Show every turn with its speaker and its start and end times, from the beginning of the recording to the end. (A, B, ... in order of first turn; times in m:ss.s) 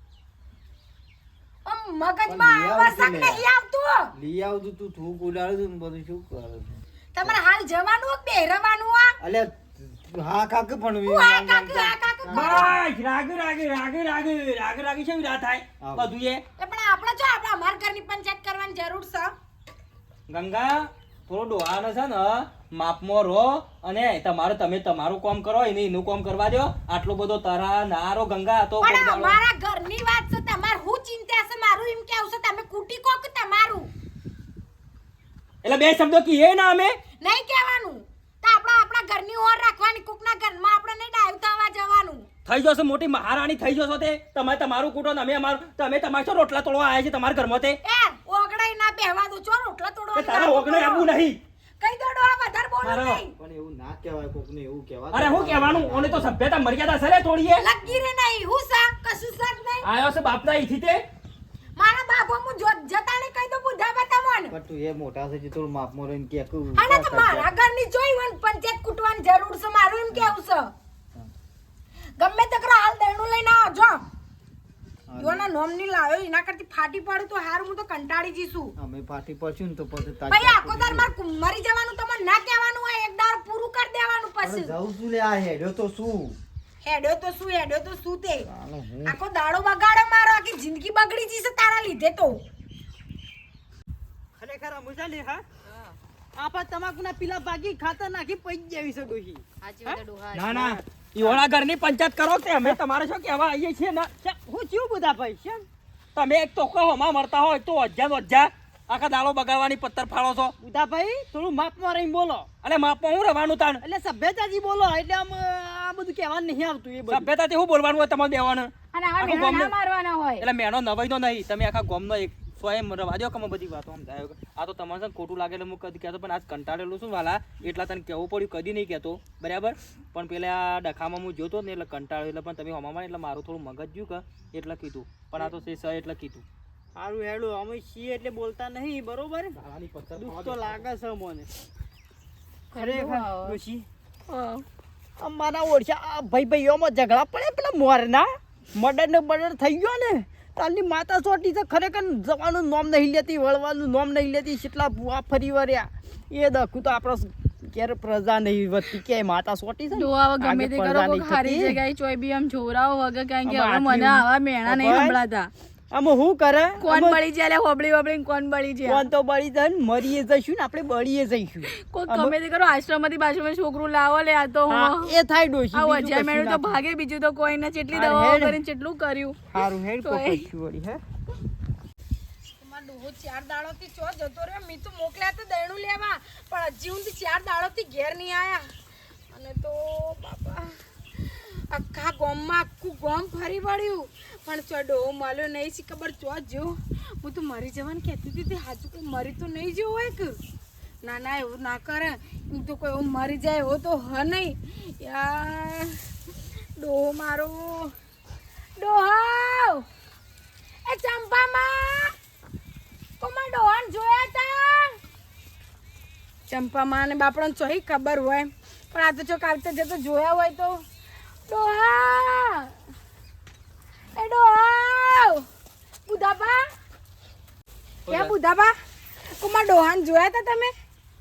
0:01.6-0:04.1 A
0:02.3-0:03.4 B
0:04.1-0:07.4 B
0:07.2-0:09.2 A
0:09.2-0:12.3 B
0:11.1-0:12.7 A
0:12.3-0:16.4 C
0:12.4-0:12.7 D
0:15.8-0:16.1 B
0:16.6-0:19.3 A
0:20.3-0:29.4 C
0:28.8-0:33.9 A
0:35.6-0:37.0 C
0:37.2-0:42.3 A
0:42.5-0:47.8 C
0:47.8-0:51.1 A
0:50.2-0:51.4 C
0:51.8-0:53.3 A
0:52.8-0:53.2 C
0:53.4-0:56.3 B
0:55.1-0:57.6 C
0:57.6-0:59.9 A
0:59.8-1:01.0 C
1:01.8-1:04.5 A
1:04.5-1:07.5 B
1:06.8-1:10.7 A
1:10.1-1:10.4 B
1:12.2-1:14.0 A
1:15.1-1:15.5 B
1:15.2-1:18.7 A
1:18.8-1:21.1 B
1:20.3-1:24.7 A
1:24.4-1:26.4 B
1:26.8-1:28.5 A
1:28.4-1:29.2 B
1:29.0-1:32.4 A
1:34.4-1:35.4 D
1:36.4-1:41.4 D
1:39.6-1:40.5 E
1:40.3-1:44.1 C
1:44.2-1:45.6 D
1:46.2-1:50.5 C
1:50.6-1:52.5 D
1:52.6-1:53.8 C
1:53.8-1:57.3 D
1:57.1-1:59.8 C
1:59.0-2:00.4 E
2:00.4-2:16.4 C
2:17.0-2:19.6 D
2:19.6-2:20.9 B
2:20.2-2:21.5 D
2:22.7-2:23.6 E
2:22.7-2:23.9 D
2:24.3-2:24.6 E
2:25.2-2:41.8 D
2:39.9-2:45.5 E
2:43.4-2:45.2 D
2:45.9-2:47.2 D
2:46.8-2:49.1 E
2:48.9-2:52.3 D
2:51.7-2:55.2 E
2:54.7-2:56.8 D
2:55.7-3:00.4 E
2:57.9-2:58.6 D
2:59.5-3:01.0 D
3:02.6-3:08.7 A
3:09.3-3:20.4 A
3:21.0-3:26.0 A
3:26.8-3:27.9 A
3:28.8-3:29.8 A
3:30.9-3:32.1 A
3:33.2-3:35.0 A
3:36.5-3:40.8 A
3:41.5-3:42.7 A
3:44.2-3:45.4 A
3:46.1-3:46.7 A
3:48.1-3:48.3 C
3:48.1-3:48.8 A
3:49.4-3:50.7 A